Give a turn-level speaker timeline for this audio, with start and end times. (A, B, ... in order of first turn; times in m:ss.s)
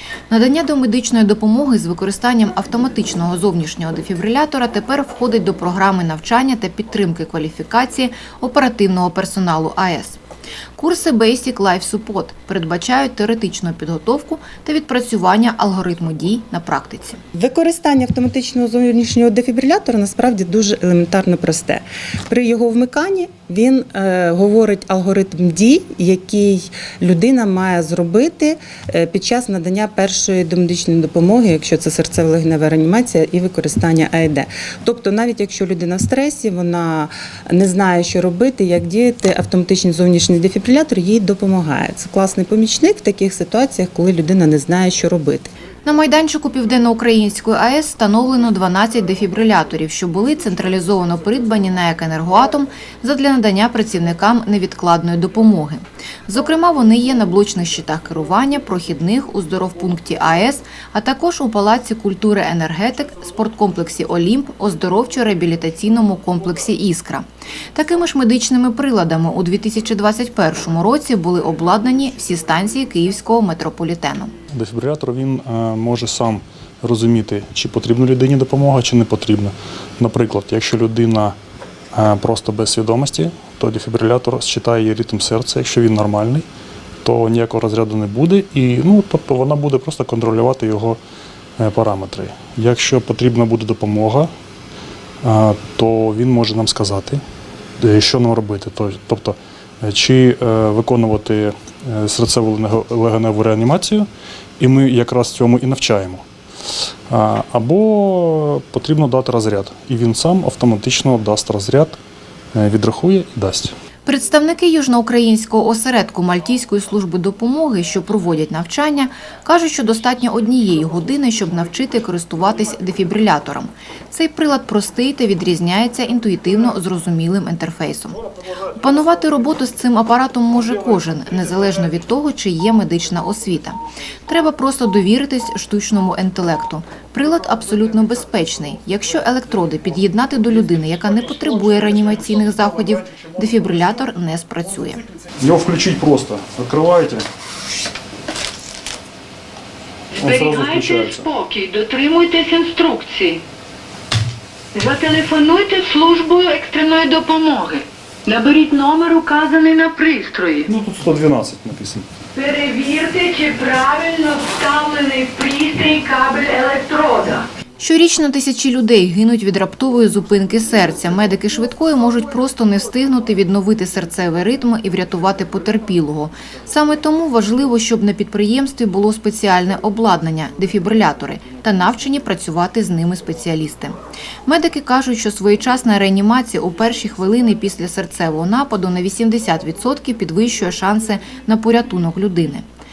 0:00.3-0:10.2 A
0:10.8-0:17.2 A
0:17.3-0:45.5 B
0:45.8-1:14.3 A
1:14.5-1:21.3 C
1:21.9-1:26.4 C
1:27.0-1:31.0 C
1:31.6-1:34.3 C
1:35.2-1:37.2 C
1:37.8-1:44.1 C
1:44.6-1:46.2 C
1:47.1-1:52.0 C
1:52.5-1:53.7 C
1:54.0-2:08.2 A
2:08.7-2:25.0 A
2:25.4-2:27.2 C
2:30.1-2:33.4 D
2:30.2-2:31.2 C
2:34.7-2:40.7 D
2:40.7-2:42.0 C
2:42.3-2:47.5 D
2:47.8-3:04.0 A
3:04.5-3:12.6 A